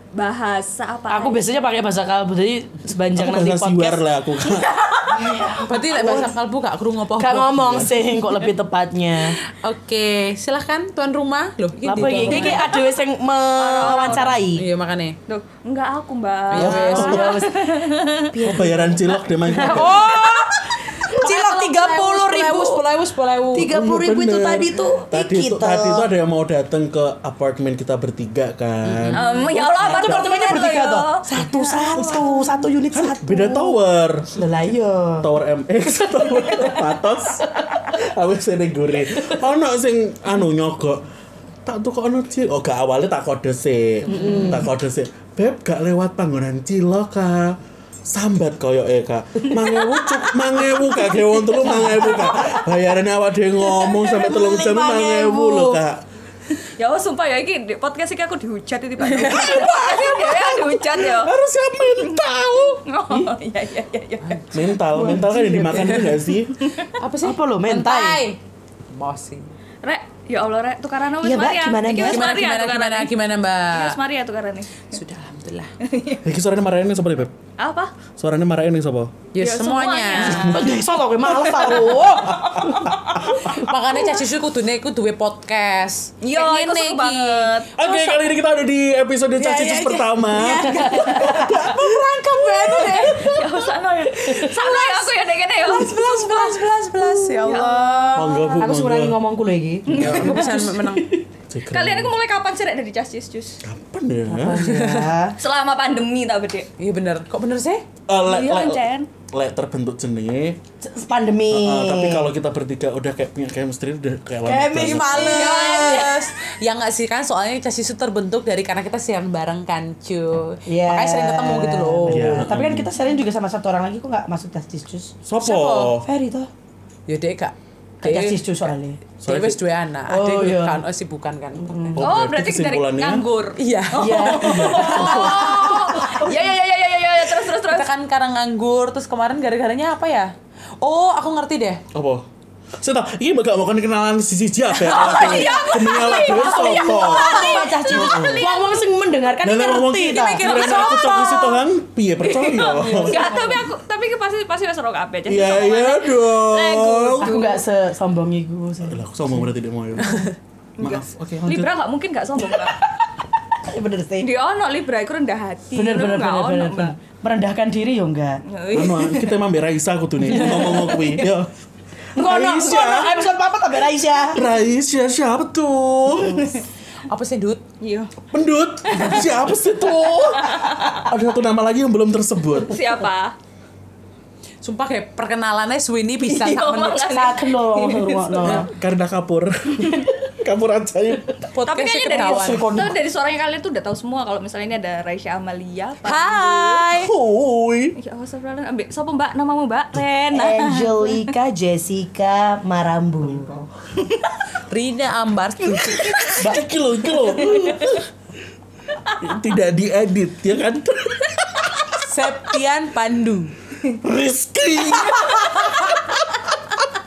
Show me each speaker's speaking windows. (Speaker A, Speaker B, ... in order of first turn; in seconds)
Speaker A: 0.1-1.4, 4.7-5.0, 12.3-12.8, 13.6-14.3, 15.3-18.4, 29.1-32.6, 56.8-64.4, 66.6-67.0, 69.8-73.1, 73.7-74.9, 75.8-76.3, 77.6-78.0, 79.4-80.7, 81.3-83.2, 86.2-88.3, 93.1-98.7, 99.9-100.2, 101.7-103.6, 105.4-106.7, 108.2-109.1, 115.6-116.1, 132.0-137.9, 144.8-148.8, 152.2-157.6, 160.8-162.8, 164.2-166.9, 168.5-169.4, 170.4-171.3, 177.8-178.1, 178.9-179.2, 180.0-181.1, 182.6-183.3, 186.3-188.0, 191.7-196.8, 198.0-201.3, 207.4-207.8
Speaker B: 1.1-4.0, 5.1-6.3, 7.2-9.4, 11.8-14.6, 16.6-17.7, 18.3-22.8, 23.5-26.1, 29.6-33.8, 34.3-35.3, 36.4-36.8, 37.5-37.9, 39.0-39.4, 44.1-44.7, 51.7-52.6, 53.7-55.8, 67.2-68.2, 71.2-72.2, 80.5-83.0, 90.6-91.6, 94.2-94.5, 98.6-101.2, 104.3-105.4, 110.8-112.3, 114.5-116.3, 120.7-125.2, 125.9-126.5, 128.0-129.0, 130.1-130.8, 131.7-132.0, 134.0-136.3, 145.3-150.8, 152.8-153.7, 157.2-159.5, 162.5-164.3, 165.8-168.4, 170.2-171.1, 172.2-174.4, 186.6-188.7, 192.2-193.0, 200.3-203.7, 206.4-206.7
Speaker C: 3.1-4.7, 7.6-7.9, 12.0-12.5, 16.6-17.2, 18.5-20.3, 23.6-30.5, 31.7-32.4, 32.9-34.3, 35.2-41.0, 41.6-56.0, 59.3-62.8, 64.5-66.6, 76.2-77.3, 78.2-79.1, 82.4-82.8, 87.8-93.3, 98.2-99.2, 99.9-100.5, 101.5-102.1, 103.6-104.8, 108.1-110.6, 111.5-115.7, 122.1-122.9, 125.2-126.1, 129.2-129.6, 131.9-133.2, 134.4-136.0, 141.9-142.3, 142.8-148.5, 149.4-153.3, 155.3-157.4, 158.8-160.3, 160.8-161.8, 168.7-171.5, 172.2-173.4, 174.3-176.5, 178.3-182.8, 188.4-191.4, 197.0-197.9, 206.1-208.1, 209.2-212.0, 214.0-216.3
Speaker D: 5.5-8.0, 9.4-12.8, 13.9-15.2, 16.5-17.4, 19.6-20.5, 21.1-23.7, 28.8-29.5, 44.1-44.6, 59.0-59.7, 64.2-66.3, 66.9-68.4, 68.9-69.5, 72.0-74.0, 74.9-75.7, 79.3-80.7, 83.4-87.5, 89.4-93.5, 94.3-95.1, 95.6-98.5, 100.0-101.2, 104.6-105.1, 106.8-107.8, 114.7-122.5, 125.4-125.9, 127.1-128.4, 129.2-132.0, 133.6-135.7, 137.6-141.8, 145.0-145.9, 150.0-151.6, 152.9-153.4, 160.0-160.3, 177.1-177.6, 184.6-187.2, 191.5-192.7, 196.0-197.1, 204.6-206.3, 212.0-213.5